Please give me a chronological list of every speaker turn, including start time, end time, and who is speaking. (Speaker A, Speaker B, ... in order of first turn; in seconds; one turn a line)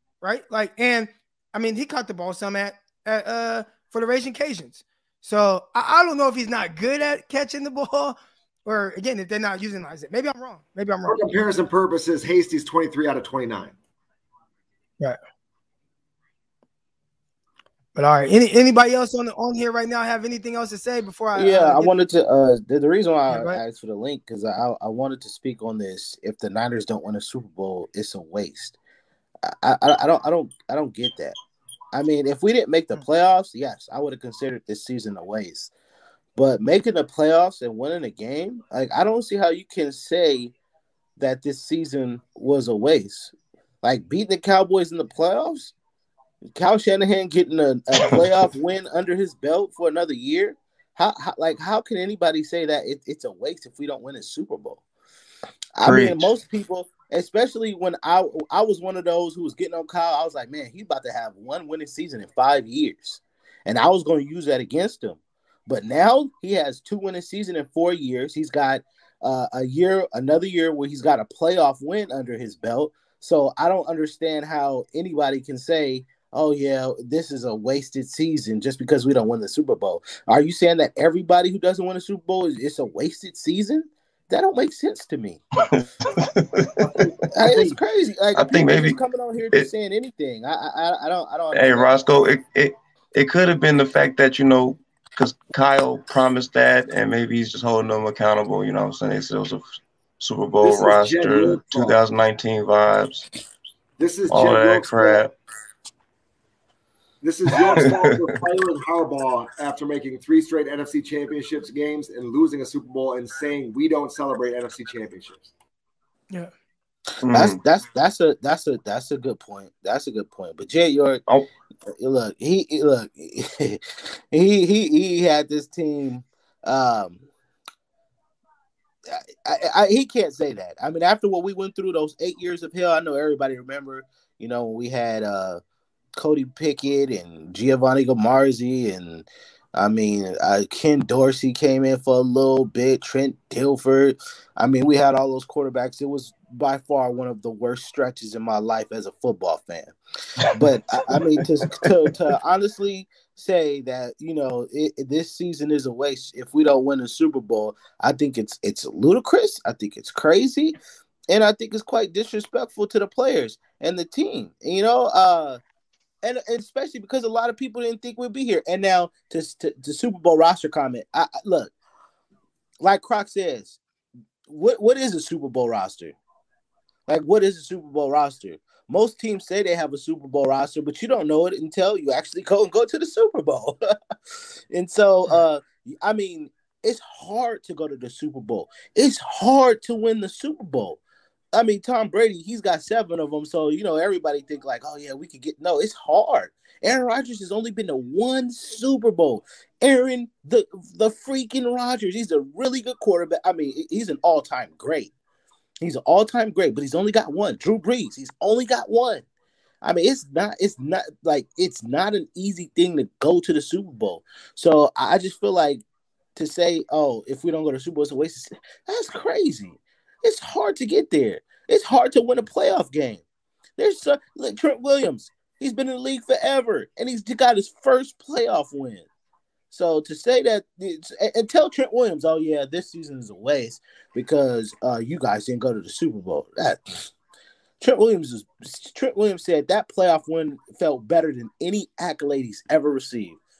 Speaker A: 0.2-11.3
Speaker B: 11.1-13.8
Speaker A: 18.0-21.9
Speaker C: 21.4-28.8
Speaker A: 23.3-23.6
Speaker C: 29.5-31.4
Speaker C: 31.9-35.7
Speaker C: 36.4-40.5
Speaker C: 41.2-45.7
Speaker C: 46.5-54.8
Speaker C: 55.8-85.4
Speaker D: 85.7-86.7
Speaker C: 87.4-92.1
Speaker D: 88.3-89.0
Speaker D: 91.5-99.7
Speaker D: 100.2-103.3
Speaker B: 100.6-102.0
Speaker B: 104.0-105.3
Speaker D: 104.3-105.3
Speaker B: 107.2-115.5
Speaker D: 117.3-117.6
Speaker C: 117.3-121.2
Speaker C: 122.0-127.2
Speaker C: 129.1-135.6
Speaker C: 136.2-149.9
Speaker C: 150.5-160.8
Speaker C: 161.3-165.6
Speaker C: 166.2-171.7
Speaker C: 172.8-173.8
Speaker C: 174.5-176.2
Speaker C: 177.1-183.8
Speaker C: 184.7-191.0
Speaker C: 191.5-205.1
Speaker C: 205.8-209.2
Speaker C: 209.8-215.8
Speaker C: 216.4-223.2
Speaker C: 223.8-229.1
Speaker C: 229.7-237.1
Speaker C: 237.8-243.4